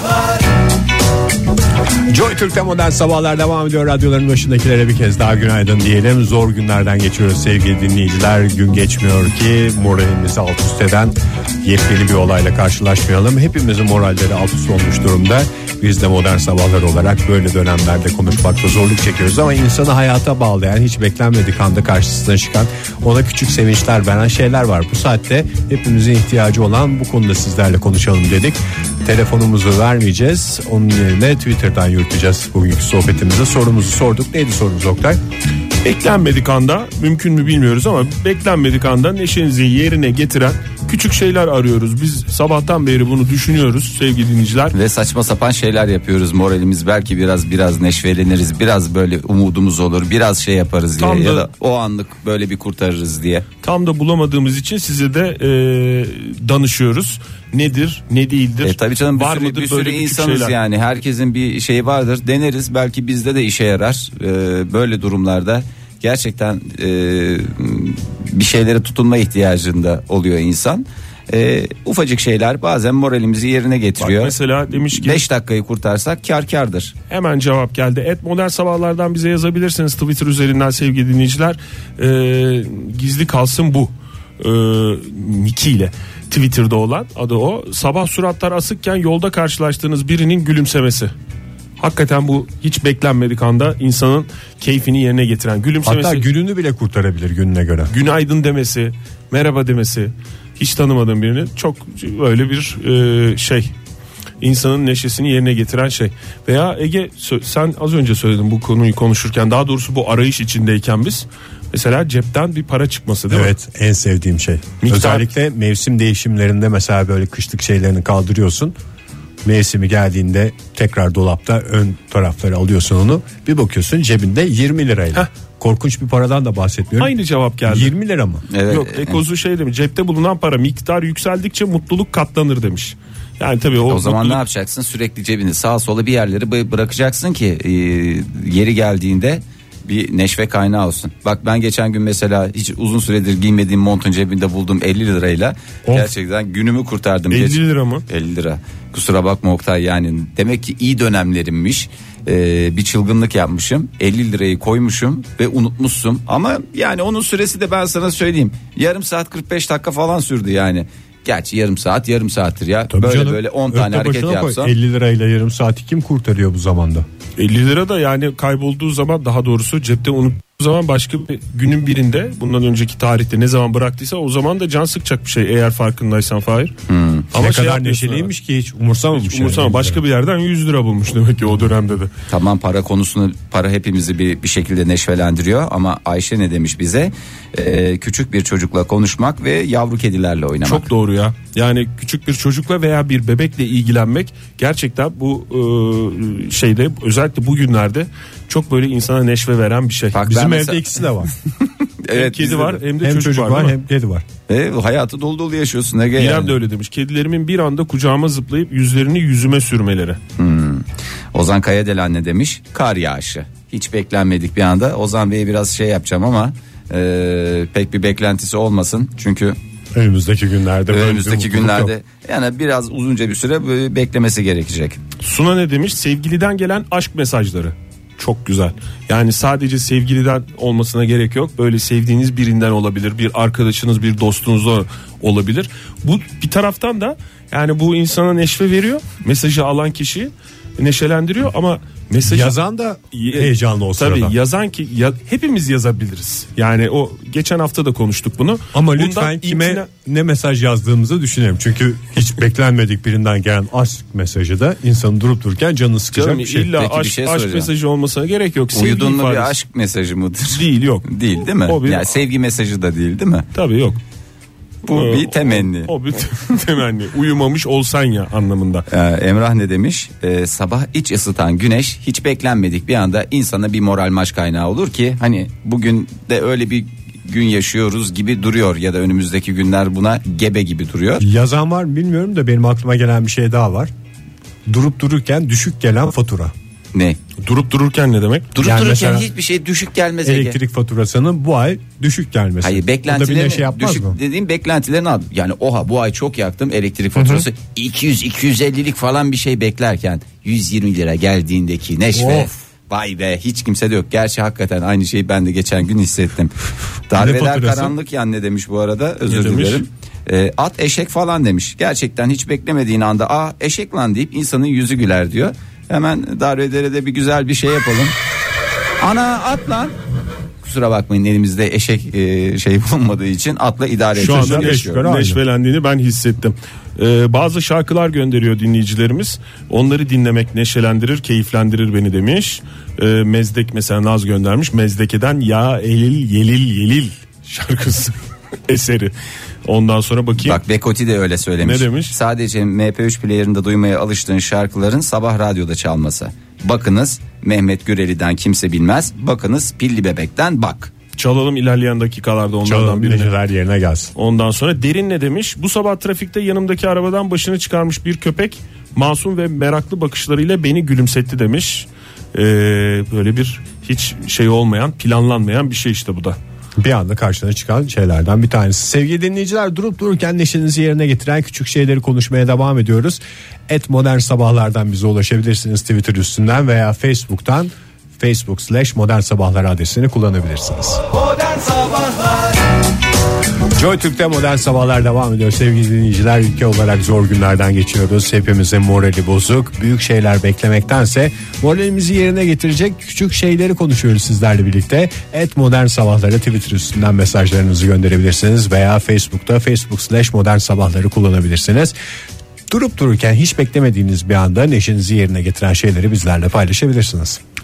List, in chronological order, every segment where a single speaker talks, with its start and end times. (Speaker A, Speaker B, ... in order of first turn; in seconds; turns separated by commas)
Speaker A: 2.1-35.2, Speaker B: 35.8-44.8, Speaker C: 44.7-53.5, Speaker B: 51.0-51.5, Speaker B: 53.6-60.5, Speaker C: 58.6-74.3, Speaker B: 74.0-75.2, Speaker C: 74.9-76.9, Speaker B: 77.1-91.1, Speaker B: 91.8-96.2, Speaker A: 95.8-97.9, Speaker B: 97.9-103.7, Speaker B: 104.4-113.5, Speaker A: 113.3-118.7, Speaker B: 114.8-115.3, Speaker A: 119.4-127.1, Speaker B: 127.0-127.9, Speaker A: 127.7-128.4, Speaker C: 128.5-129.2, Speaker B: 128.7-134.4, Speaker C: 133.9-164.7, Speaker B: 147.3-148.0, Speaker A: 162.9-167.1, Speaker B: 167.4-176.7, Speaker C: 176.9-177.3, Speaker B: 177.3-178.3, Speaker A: 177.3-180.0, Speaker B: 179.1-182.1, Speaker C: 182.3-190.9, Speaker B: 190.6-200.2, Speaker C: 200.1-200.9, Speaker A: 200.2-201.3, Speaker C: 201.6-202.8, Speaker B: 202.1-203.8, Speaker A: 203.0-204.2, Speaker C: 204.5-206.6, Speaker B: 206.2-210.2, Speaker C: 210.4-219.6, Speaker A: 219.9-221.9, Speaker C: 220.9-225.0, Speaker B: 225.2-242.6, Speaker A: 242.2-244.3, Speaker B: 243.1-249.9, Speaker A: 248.7-256.7, Speaker B: 256.1-259.5, Speaker C: 256.7-257.7, Speaker C: 258.7-263.5, Speaker B: 260.5-262.1, Speaker B: 263.5-264.0, Speaker C: 264.8-265.9, Speaker B: 264.9-268.8, Speaker C: 268.9-281.2, Speaker A: 281.2-283.9, Speaker A: 284.6-286.5, Speaker C: 286.9-287.2, Speaker B: 287.4-288.5, Speaker C: 288.5-290.6, Speaker A: 288.6-289.3, Speaker A: 290.2-294.2, Speaker C: 292.6-306.5, Speaker A: 297.1-297.5, Speaker A: 302.1-302.5, Speaker C: 307.1-318.1, Speaker A: 307.1-307.9, Speaker B: 309.3-309.8, Speaker C: 319.0-319.9, Speaker C: 320.6-325.0, Speaker B: 324.1-338.1, Speaker A: 324.2-325.4, Speaker B: 338.7-339.1, Speaker B: 339.6-340.6, Speaker C: 340.4-350.9, Speaker B: 341.6-342.1, Speaker B: 351.1-353.3, Speaker A: 352.6-354.1, Speaker B: 354.1-366.4, Speaker A: 366.8-381.0, Speaker A: 383.7-401.9, Speaker A: 402.7-407.4